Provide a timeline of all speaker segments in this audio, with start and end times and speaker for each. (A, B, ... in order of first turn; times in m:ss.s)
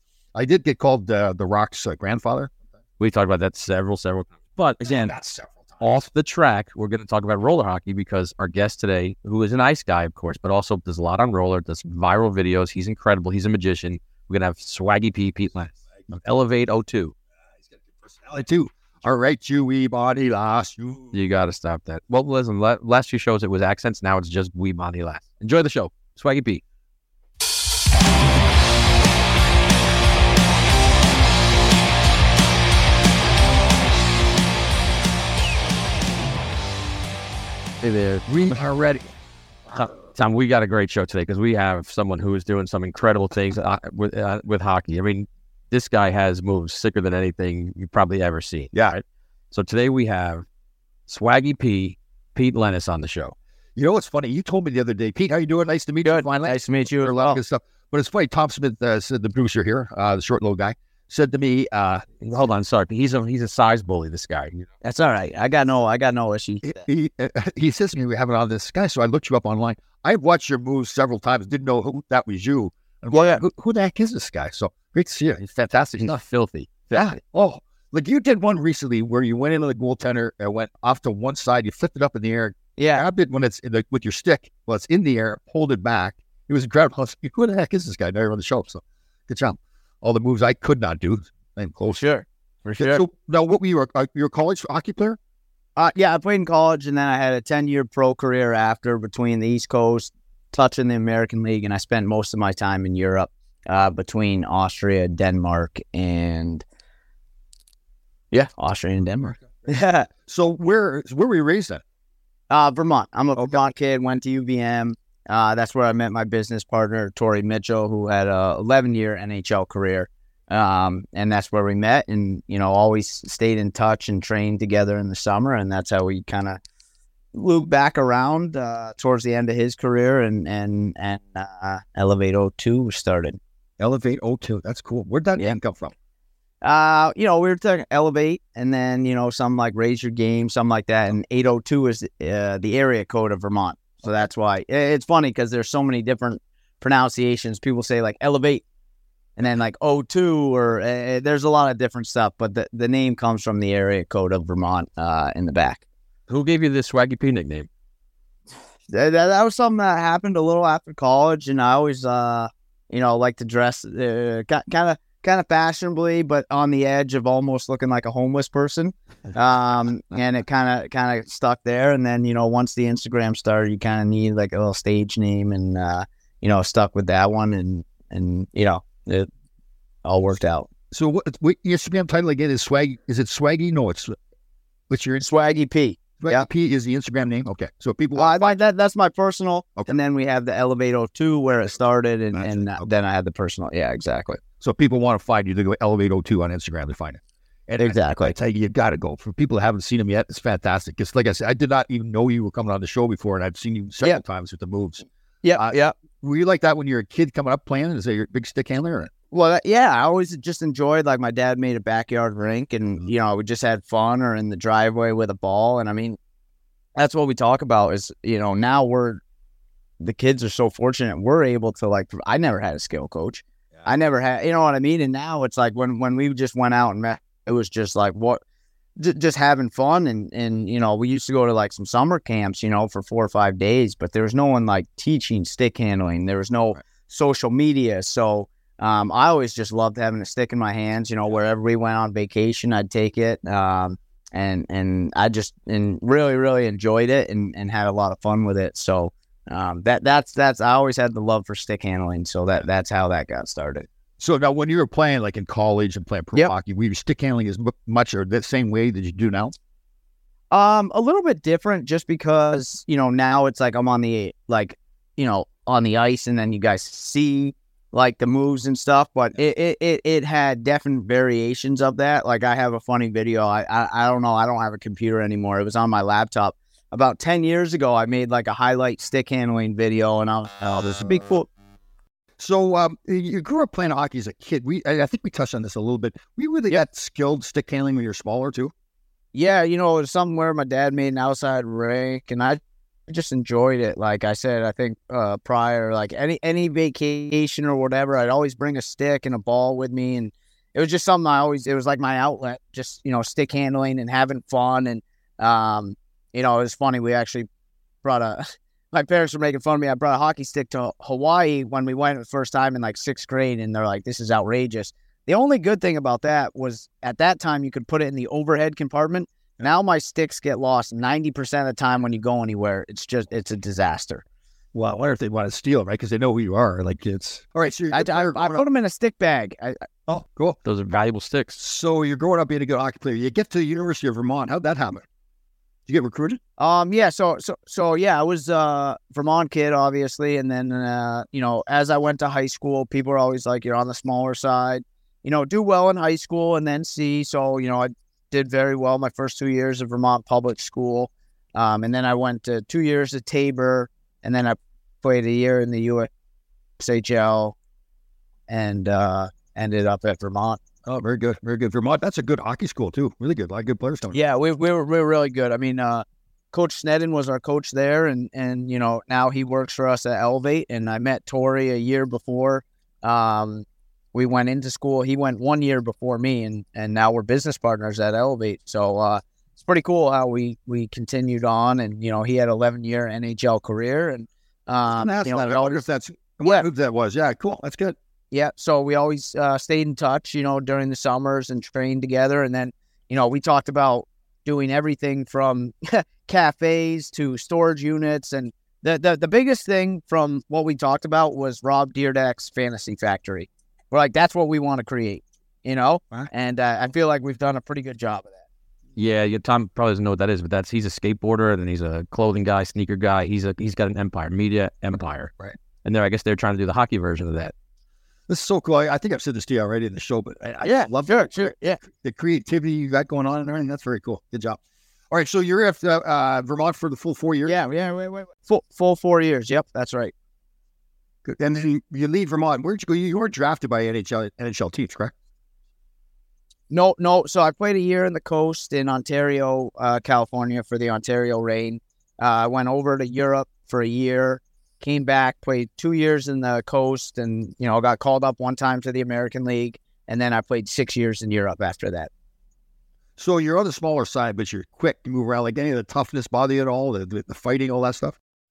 0:00.3-0:02.5 A
0:03.0-0:05.1 B
0:04.8-0:06.0 A
0:05.8-0:17.1 B
0:17.9-0:21.2 A
0:21.1-0:26.6 B
0:37.8-0:38.6 B
0:38.3-0:39.1 A
0:39.7-0:50.4 B
0:51.1-0:53.4 B
0:53.8-1:02.1 A
0:56.0-0:57.4 C
1:02.2-1:04.6 B
1:04.8-1:06.9 C
1:06.6-1:16.2 A
1:13.1-1:13.4 C
1:15.5-1:17.2 B
1:16.9-1:32.0 A
1:22.8-1:23.0 C
1:32.0-1:33.0 C
1:32.8-1:35.2 A
1:35.8-1:46.6 C
1:48.3-1:50.1 C
1:50.2-1:51.8 A
1:52.5-2:06.6 C
2:07.3-2:13.4 C
2:13.8-2:15.9 A
2:16.6-2:28.6 C
2:29.4-2:35.8 C
2:36.3-2:37.7 B
2:38.9-2:59.3 C
3:00.0-3:00.7 C
3:00.9-3:04.2 A
3:04.9-3:05.2 A
3:05.2-3:06.5 C
3:06.2-3:08.6 A
3:08.1-3:14.4 C
3:12.3-3:12.9 A
3:14.6-3:29.1 A
3:17.8-3:18.3 C
3:25.4-3:25.9 C
3:29.3-3:36.2 C
3:37.0-3:39.2 C
3:40.0-3:48.4 C
3:49.0-4:13.9 C
4:14.2-4:19.5 A
4:20.5-4:41.5 C
4:40.6-4:41.2 A
4:42.4-4:48.7 A
4:49.3-5:07.5 C
5:08.0-5:24.2 C
5:24.7-5:28.6 A
5:27.9-5:29.8 C
5:30.1-5:30.6 A
5:30.6-5:31.6 B
5:31.6-5:35.1 A
5:35.9-5:36.4 A
5:36.6-5:56.1 C
5:56.8-5:57.6 C
5:58.5-6:00.6 C
6:00.8-6:04.2 A
6:04.1-6:25.8 C
6:24.9-6:28.0 A
6:28.3-6:48.4 C
6:49.0-6:55.3 B
6:55.8-6:57.5 B
6:58.3-7:04.6 A
7:00.6-7:01.8 C
7:05.1-7:07.6 A
7:07.4-7:10.1 C
7:11.2-7:15.1 A
7:16.7-7:32.1 C
7:33.2-7:38.2 A